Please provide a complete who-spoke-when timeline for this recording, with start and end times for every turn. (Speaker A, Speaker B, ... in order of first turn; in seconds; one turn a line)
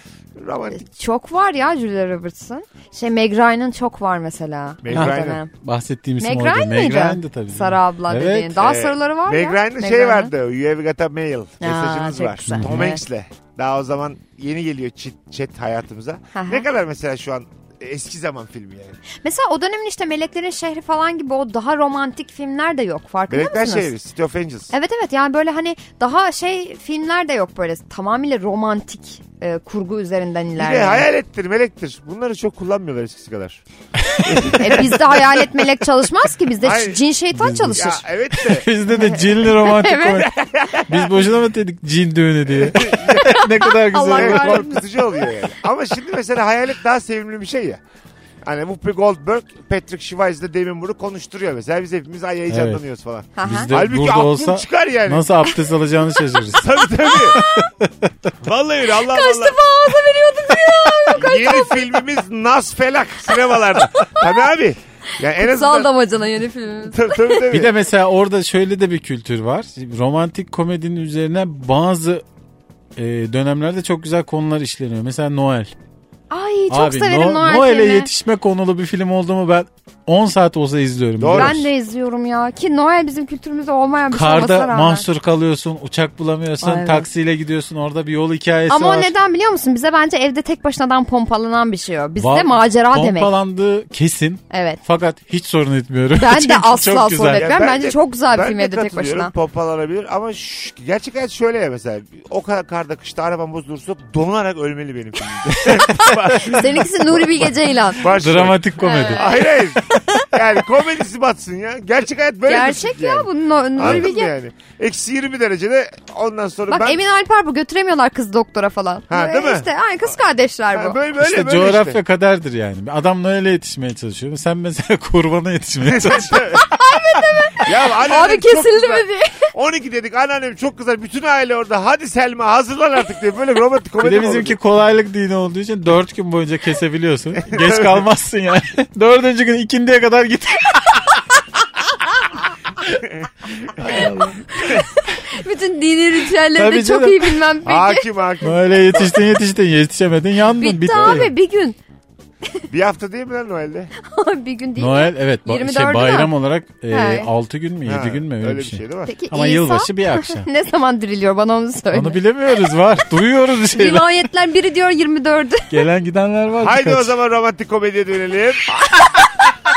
Speaker A: 0.4-0.8
Speaker B: 0.7-5.5
Speaker A: 4.8-5.4
Speaker C: 4.9-8.6
Speaker B: 6.2-10.3
Speaker A: 8.6-19.0
Speaker B: 11.6-13.0
Speaker C: 12.5-12.9
Speaker B: 16.3-16.6
Speaker B: 19.2-23.9
Speaker A: 23.3-24.7
Speaker B: 24.7-31.1
Speaker A: 30.6-33.6
Speaker A: 34.2-35.3
Speaker B: 34.4-38.0
Speaker A: 36.6-37.0
Speaker C: 37.3-40.3
Speaker A: 37.7-38.7
Speaker B: 38.9-40.3
Speaker A: 40.3-41.2
Speaker C: 40.8-44.7
Speaker A: 42.5-43.4
Speaker B: 42.8-44.8
Speaker A: 44.1-47.8
Speaker A: 48.4-55.2
Speaker C: 52.5-52.8
Speaker B: 53.4-53.7
Speaker C: 53.4-56.7
Speaker A: 56.5-57.4
Speaker C: 57.3-57.9
Speaker A: 58.4-59.5
Speaker B: 59.1-61.9
Speaker A: 61.1-65.9
Speaker B: 64.0-64.3
Speaker B: 65.4-67.4
Speaker A: 66.8-67.7
Speaker C: 67.5-72.2
Speaker C: 73.0-75.7
Speaker B: 76.3-78.1
Speaker C: 76.7-81.7
Speaker A: 81.2-81.6
Speaker B: 81.3-85.1
Speaker C: 84.1-89.1
Speaker B: 86.6-87.1
Speaker B: 88.7-93.3
Speaker C: 92.2-97.5
Speaker B: 94.5-94.8
Speaker B: 96.1-99.3
Speaker A: 97.3-117.0
Speaker B: 105.8-108.0
Speaker C: 108.0-109.3
Speaker B: 108.8-110.2
Speaker B: 112.5-114.3
Speaker B: 116.7-121.0
Speaker A: 119.1-119.7
Speaker A: 120.7-122.0
Speaker C: 121.2-126.6
Speaker A: 125.8-126.7
Speaker B: 126.6-129.5
Speaker A: 127.6-134.6
Speaker C: 134.0-141.2
Speaker A: 137.5-138.0
Speaker A: 142.9-144.1
Speaker B: 144.0-148.1
Speaker C: 146.5-147.4
Speaker A: 147.6-149.1
Speaker C: 148.4-151.3
Speaker B: 150.6-151.8
Speaker A: 152.7-153.9
Speaker B: 154.0-156.3
Speaker C: 154.8-160.5
Speaker B: 156.9-157.3
Speaker A: 157.8-159.1
Speaker B: 159.1-162.2
Speaker C: 161.9-164.1
Speaker B: 163.7-165.8
Speaker C: 165.7-167.1
Speaker A: 166.6-168.9